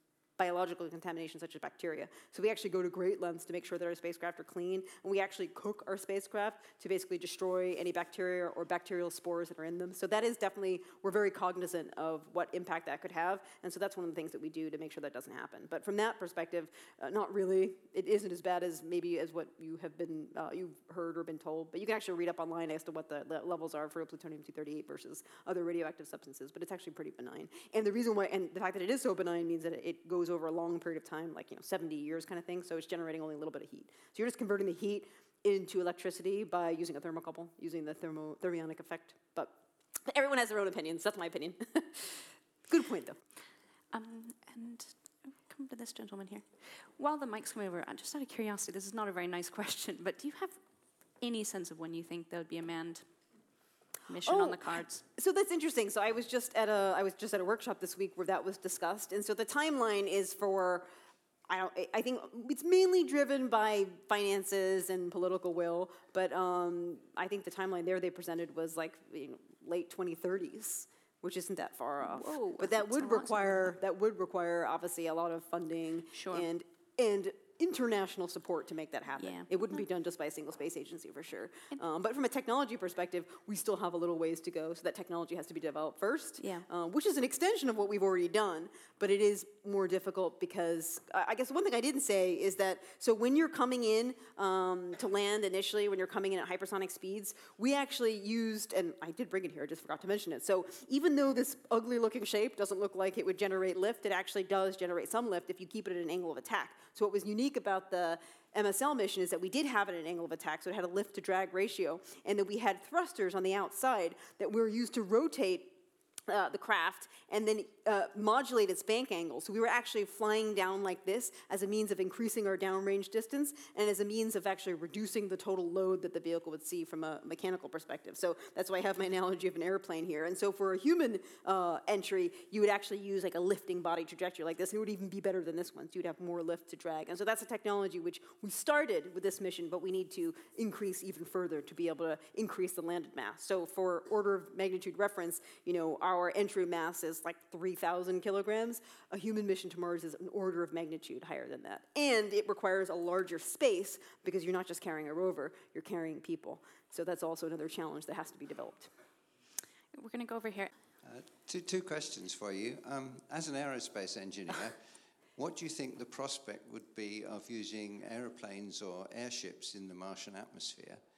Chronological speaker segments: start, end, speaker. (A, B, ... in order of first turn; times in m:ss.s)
0:00.4-0:39.6 A
0:40.1-0:43.2 A
0:43.9-0:50.6 B
0:51.2-0:53.0 B
0:54.1-0:55.0 B
0:54.2-0:54.6 A
0:55.1-1:00.9 A
1:01.5-1:55.8 A
1:12.0-1:13.7 B
1:16.1-1:16.5 B
1:19.2-1:19.8 B
1:26.4-1:26.6 B
1:56.3-2:38.9 A
2:39.9-2:40.7 B
2:41.0-2:44.8 C
2:45.4-2:51.0 C